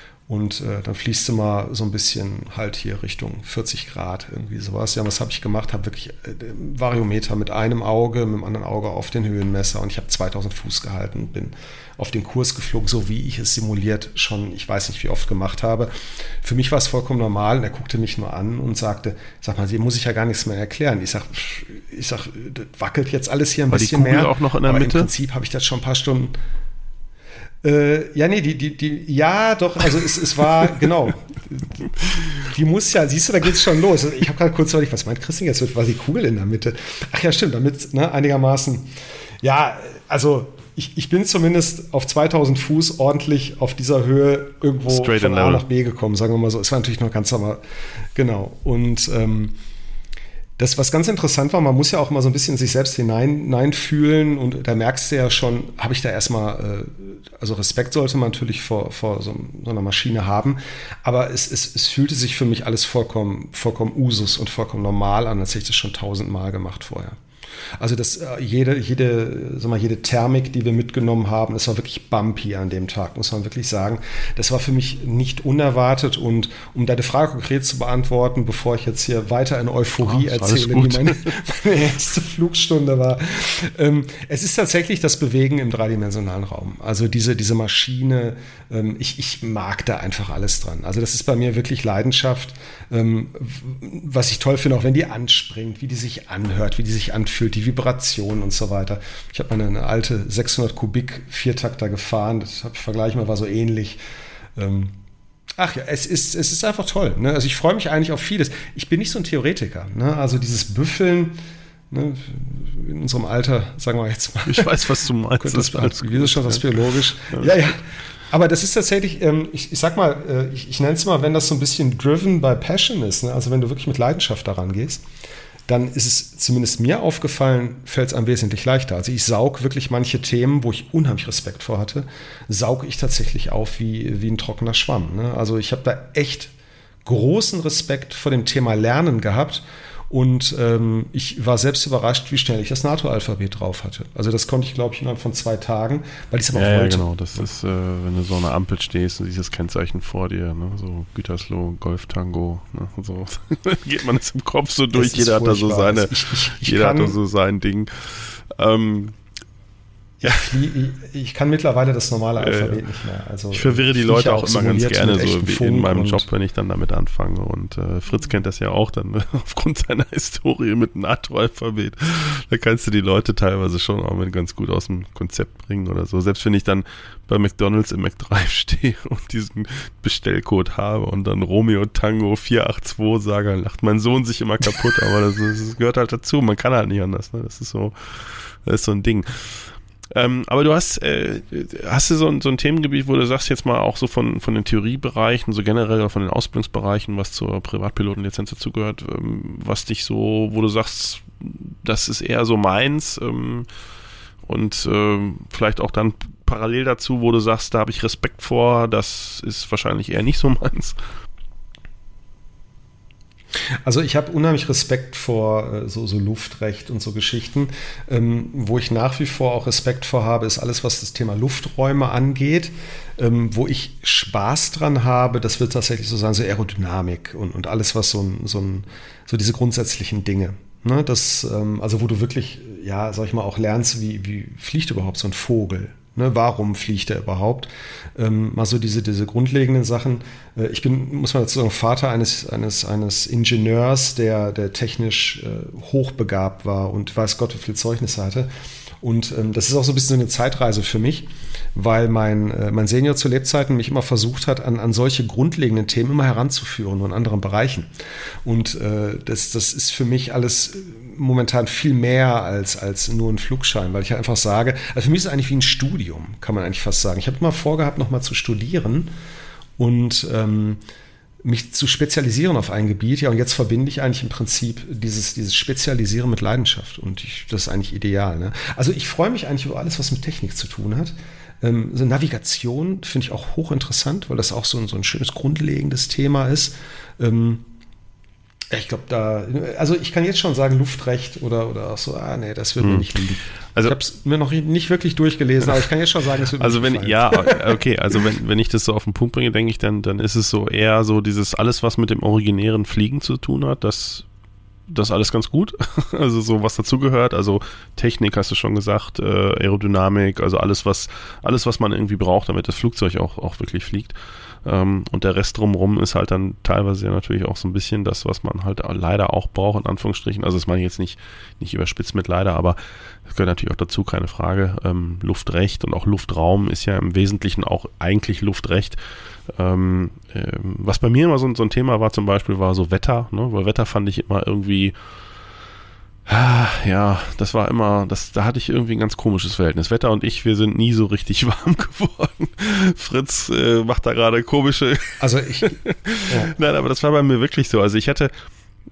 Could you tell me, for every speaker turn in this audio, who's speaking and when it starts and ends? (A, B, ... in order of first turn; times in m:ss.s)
0:00.3-0:26.4 A
0:23.7-0:25.1 B
0:27.6-0:38.9 A
0:39.4-0:47.6 A
0:44.9-0:45.6 B
0:48.2-0:49.6 A
0:50.6-1:07.2 A
1:07.8-1:44.0 A
1:20.0-1:21.3 B
1:44.6-1:45.0 A
1:45.6-1:51.4 A
1:51.9-1:54.8 A
1:54.5-1:57.6 B
1:55.4-2:05.0 A
2:05.7-2:16.5 A
2:17.0-2:27.4 A
2:26.5-2:39.2 B
2:34.9-2:37.2 A
2:40.2-2:46.3 A
2:40.2-2:40.5 B
2:42.4-2:42.8 B
2:43.5-3:23.7 B
3:24.5-3:31.0 B
3:33.8-4:08.5 A
4:09.0-4:17.9 A
4:18.4-4:29.1 A
4:29.8-4:30.8 A
4:31.4-4:47.7 A
4:48.7-4:57.8 A
4:52.8-4:53.1 B
4:56.6-5:04.3 B
5:04.9-5:35.0 B
5:36.3-5:48.3 B
5:45.2-5:46.5 A